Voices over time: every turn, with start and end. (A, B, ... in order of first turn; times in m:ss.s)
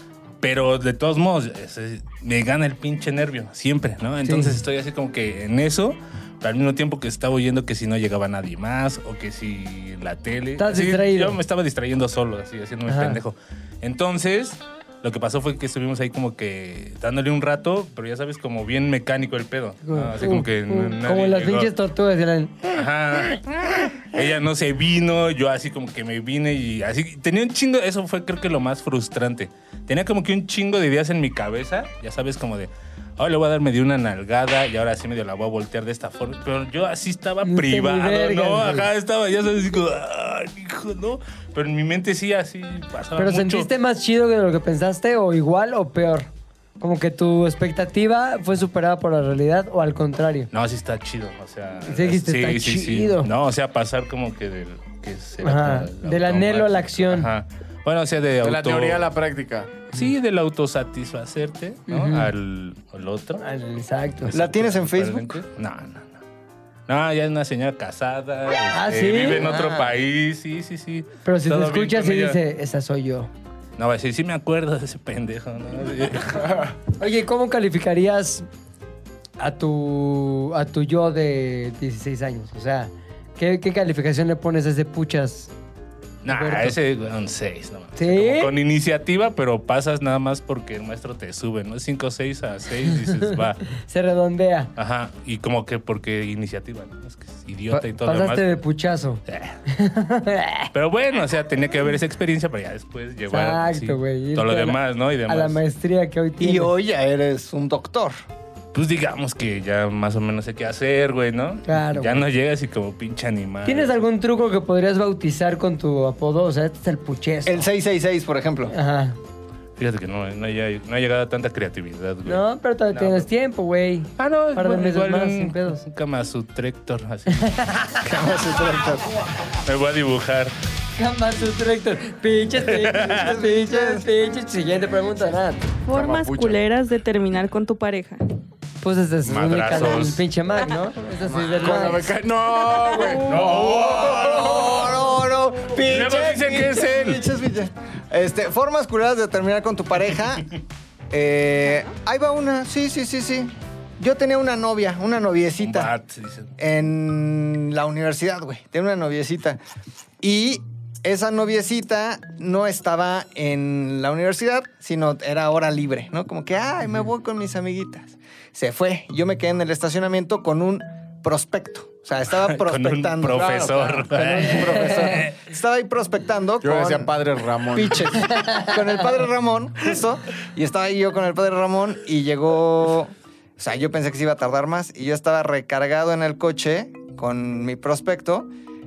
0:00.4-0:21.7 A
0:04.2-0:04.6 B
0:10.6-0:11.4 B
0:12.9-0:13.2 B
0:19.8-0:22.8 B
0:22.7-0:43.7 A
0:37.4-0:38.9 B
0:43.2-0:46.3 B
0:46.8-0:50.5 B
0:50.5-0:59.0 A
0:51.8-0:53.3 B
0:55.4-0:57.3 B
0:58.4-0:59.8 C
0:59.9-1:03.4 A
1:01.9-1:02.3 B
1:03.4-1:04.3 B
1:04.3-1:06.2 A
1:04.3-1:05.4 D
1:06.9-1:12.4 A
1:08.7-1:09.5 B
1:09.4-1:09.9 D
1:11.2-1:13.3 B
1:13.8-1:16.6 A
1:16.4-1:16.7 C
1:17.0-1:18.5 B
1:19.4-1:25.5 B
1:26.2-1:33.6 A
1:26.3-1:26.8 B
1:28.0-1:28.5 B
1:33.3-1:34.7 B
1:34.8-1:38.5 A
1:37.7-1:40.7 B
1:39.3-1:39.6 A
1:40.7-1:45.6 A
1:43.3-1:46.7 B
1:46.4-1:48.2 D
1:48.7-1:54.0 A
1:51.7-1:52.2 B
1:53.6-1:57.7 B
1:57.5-1:58.7 D
1:58.7-1:59.2 B
1:59.8-2:03.3 A
2:02.2-2:05.8 B
2:04.2-2:07.8 A
2:07.4-2:08.0 B
2:08.0-2:09.2 D
2:09.4-2:10.6 A
2:11.0-2:15.7 B
2:12.6-2:13.3 A
2:13.0-2:14.1 D
2:15.8-2:18.2 E
2:15.9-2:16.6 C
2:18.8-2:22.1 B
2:19.2-2:20.2 A
2:21.4-2:22.0 D
2:21.5-2:24.2 C
2:22.9-2:30.6 D
2:23.1-2:25.2 A
2:25.7-2:27.2 A
2:31.1-2:35.9 D
2:35.6-2:36.5 A
2:36.6-2:39.6 D
2:40.2-2:57.1 D
2:52.3-2:55.4 A
2:53.3-2:55.1 C
2:54.7-2:55.2 B
2:56.6-2:58.2 C
2:57.7-3:08.5 D
2:58.4-2:58.8 B